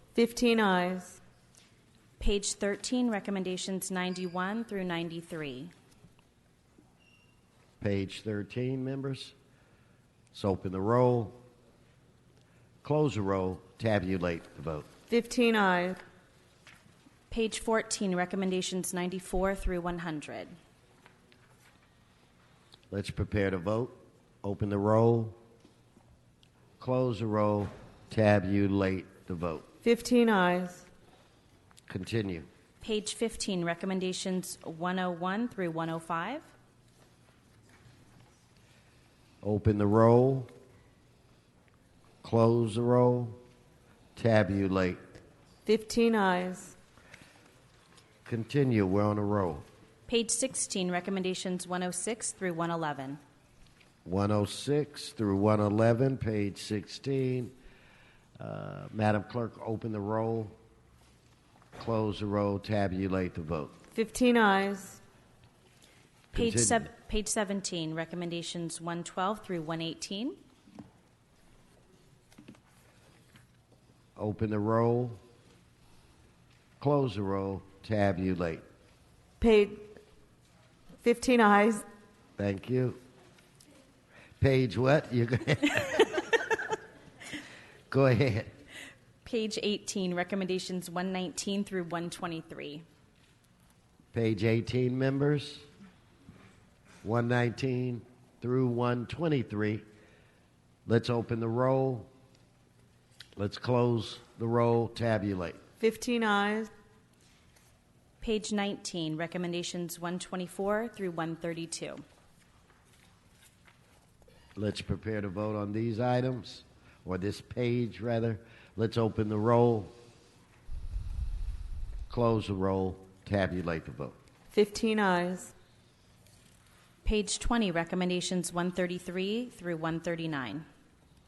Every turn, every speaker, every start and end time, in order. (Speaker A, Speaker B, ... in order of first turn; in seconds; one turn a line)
Speaker A: 0.1-1.2
Speaker B: 2.2-5.7
Speaker C: 7.8-9.3
Speaker C: 10.3-11.4
Speaker C: 12.8-14.9
Speaker A: 15.1-16.0
Speaker B: 17.3-20.5
Speaker C: 22.9-25.4
Speaker C: 26.8-29.7
Speaker A: 29.8-30.9
Speaker C: 31.9-32.5
Speaker B: 32.8-36.5
Speaker C: 39.4-40.5
Speaker C: 42.2-43.4
Speaker C: 44.2-45.0
Speaker A: 45.7-46.8
Speaker C: 48.3-49.7
Speaker B: 50.1-53.2
Speaker C: 54.0-57.5
Speaker C: 58.4-60.5
Speaker C: 61.8-63.8
Speaker A: 63.9-65.0
Speaker B: 66.3-70.4
Speaker C: 66.3-66.9
Speaker C: 74.2-75.2
Speaker C: 76.8-78.6
Speaker A: 79.4-79.9
Speaker A: 81.0-81.8
Speaker C: 82.4-83.0
Speaker C: 84.4-86.2
Speaker C: 87.9-88.5
Speaker B: 89.2-92.8
Speaker C: 94.1-95.7
Speaker C: 97.0-99.8
Speaker C: 100.9-102.1
Speaker C: 103.4-105.6
Speaker A: 105.8-106.7
Speaker B: 108.2-112.0
Speaker C: 114.6-119.9
Speaker C: 122.1-124.2
Speaker A: 124.5-125.5
Speaker B: 127.0-130.7